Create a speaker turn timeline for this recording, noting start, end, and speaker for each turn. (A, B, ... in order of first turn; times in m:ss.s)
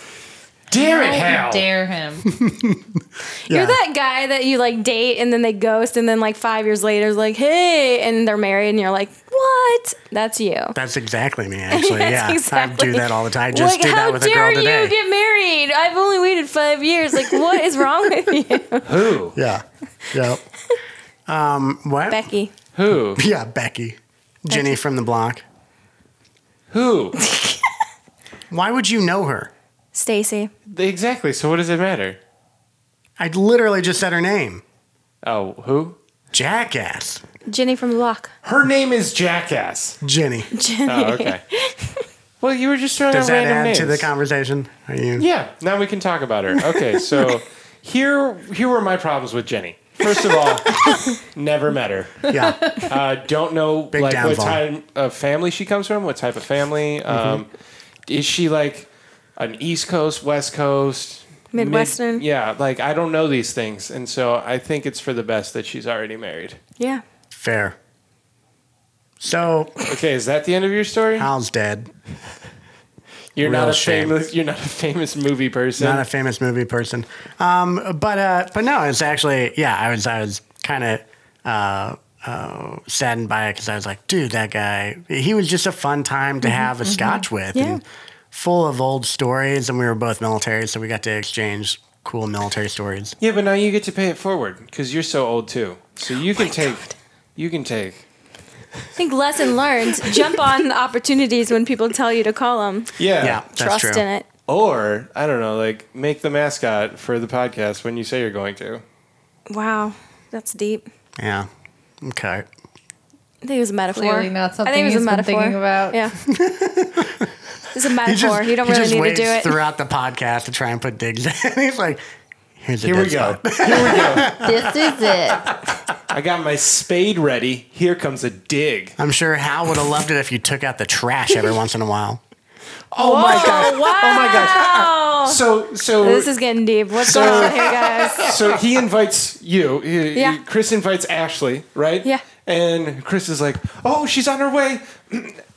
0:00.7-0:01.7 A
0:00.7-0:02.3 B
0:02.3-0:03.8 C
0:03.5-0:10.8 D
0:10.7-0:15.0 C
0:11.7-0:18.9 D
0:18.8-0:19.4 A
0:19.3-0:20.4 C
0:21.3-0:22.2 C
0:22.1-0:22.5 D
0:22.8-0:23.2 A
0:23.1-0:25.4 C
0:24.5-0:24.8 D
0:26.7-0:27.2 A
0:27.2-0:27.6 D
0:28.5-0:29.5 C
0:29.9-0:30.5 D
0:30.7-0:32.2 A
0:33.2-0:34.6 C
0:35.2-0:36.0 A
0:36.3-0:37.2 C
0:37.5-0:38.3 D
0:38.4-0:40.0 A
0:40.0-0:40.5 C
0:40.5-0:42.0 D
0:40.9-0:41.4 A
0:42.4-0:44.1 A
0:43.1-0:45.3 C
0:45.2-0:52.3 A
0:52.3-0:52.6 C
0:52.5-0:52.8 B
0:52.9-0:57.5 A
0:53.9-0:54.6 C
0:57.1-0:57.4 C
0:58.1-1:06.6 A
1:01.5-1:02.2 D
1:07.3-1:07.8 C
1:09.2-1:09.7 C
1:09.9-1:11.3 A
1:11.2-1:11.9 C
1:13.4-1:16.1 A
1:13.4-1:14.2 C
1:15.8-1:27.8 C
1:26.5-1:27.3 B
1:27.5-1:27.8 D
1:28.3-1:33.1 C
1:33.2-1:38.0 A
1:39.0-1:42.9 D
1:43.0-1:43.4 A
1:43.2-1:44.1 C
1:43.5-1:44.3 D
1:44.5-1:48.8 A
1:49.5-1:50.9 D
1:51.2-1:51.5 C
1:52.0-1:52.5 C
1:53.4-1:56.1 D
1:53.9-1:56.1 B
1:56.3-1:57.3 C
1:57.7-1:59.6 D
1:58.0-2:02.0 C
2:02.6-2:05.6 C
2:02.8-2:04.3 A
2:04.4-2:05.4 B
2:06.1-2:09.0 A
2:09.0-2:12.2 C
2:12.9-2:16.3 A
2:13.0-2:15.4 D
2:13.3-2:13.7 C
2:16.0-2:18.4 D
2:17.0-2:17.6 A
2:17.0-2:18.5 C
2:18.2-2:25.4 A
2:20.1-2:20.4 D